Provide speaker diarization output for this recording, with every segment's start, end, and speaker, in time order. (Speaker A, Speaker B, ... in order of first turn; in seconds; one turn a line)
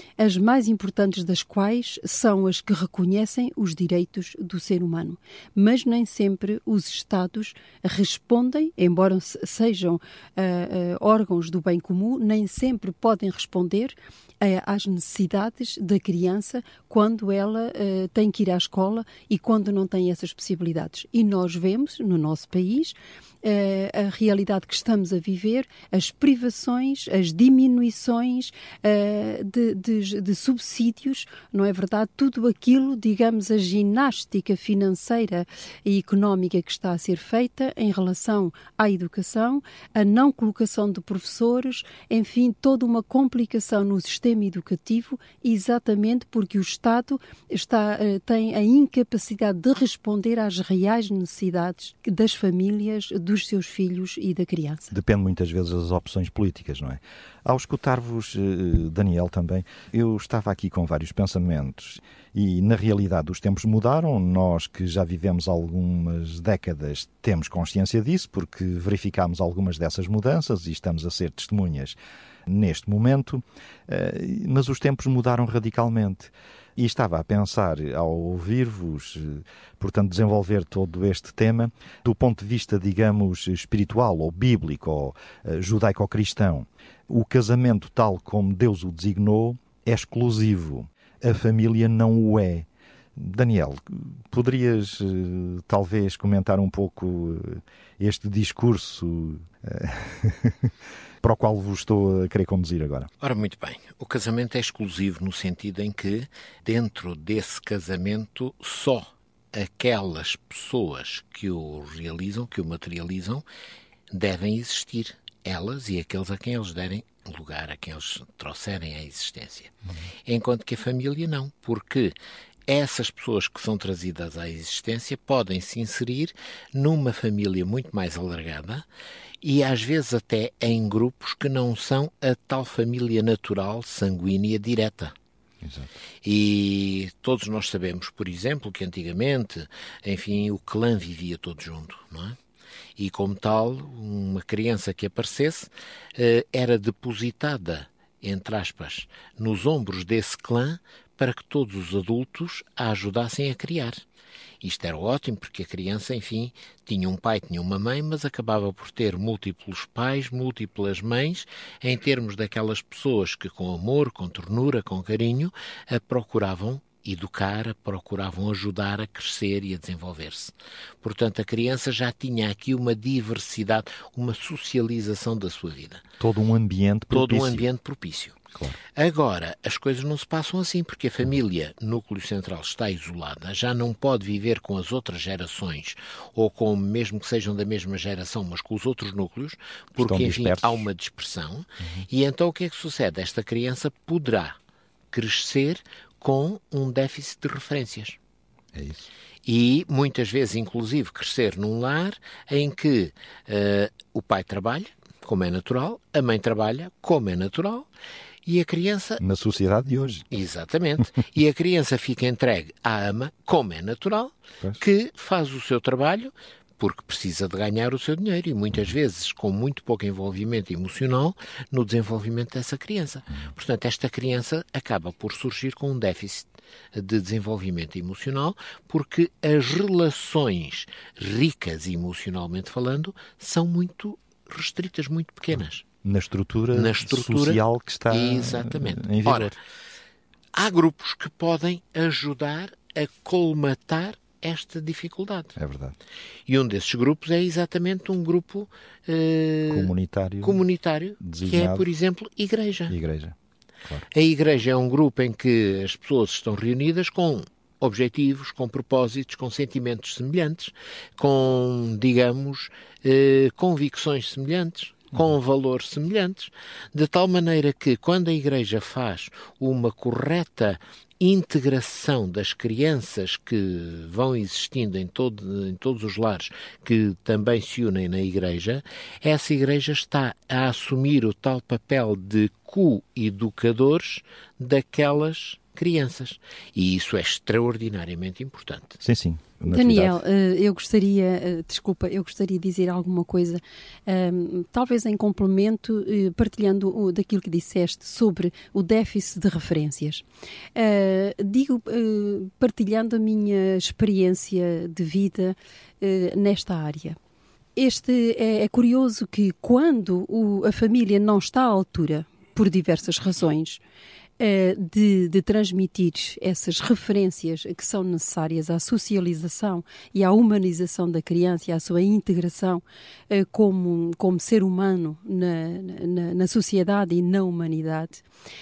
Speaker A: 0.2-54.9
Speaker B: 54.9-72.0
Speaker B: 72.5-100.7
Speaker B: 101.2-103.1
Speaker C: 103.2-113.4
Speaker C: 114.1-119.7
Speaker C: 120.3-122.1
Speaker C: 122.7-128.8
Speaker C: 129.4-135.1
Speaker B: 135.6-135.9
Speaker C: 136.2-142.4
Speaker C: 143.0-154.0
Speaker C: 154.6-176.0
Speaker B: 176.2-177.7
Speaker C: 177.1-178.4
Speaker C: 178.9-194.6
Speaker B: 190.0-190.9
Speaker B: 191.8-192.1
Speaker C: 195.1-198.2
Speaker B: 198.7-199.1
Speaker C: 199.5-207.9
Speaker C: 208.4-209.2
Speaker B: 209.2-210.2
Speaker C: 210.3-235.8
Speaker B: 236.0-239.6
Speaker C: 236.7-239.6
Speaker C: 240.6-245.6
Speaker B: 245.6-246.0
Speaker C: 246.5-253.0
Speaker B: 249.7-250.6
Speaker B: 251.2-251.9
Speaker B: 252.9-254.1
Speaker C: 254.1-289.0
Speaker B: 289.0-290.2
Speaker A: 289.7-307.2
Speaker A: 307.8-313.8
Speaker A: 314.4-328.2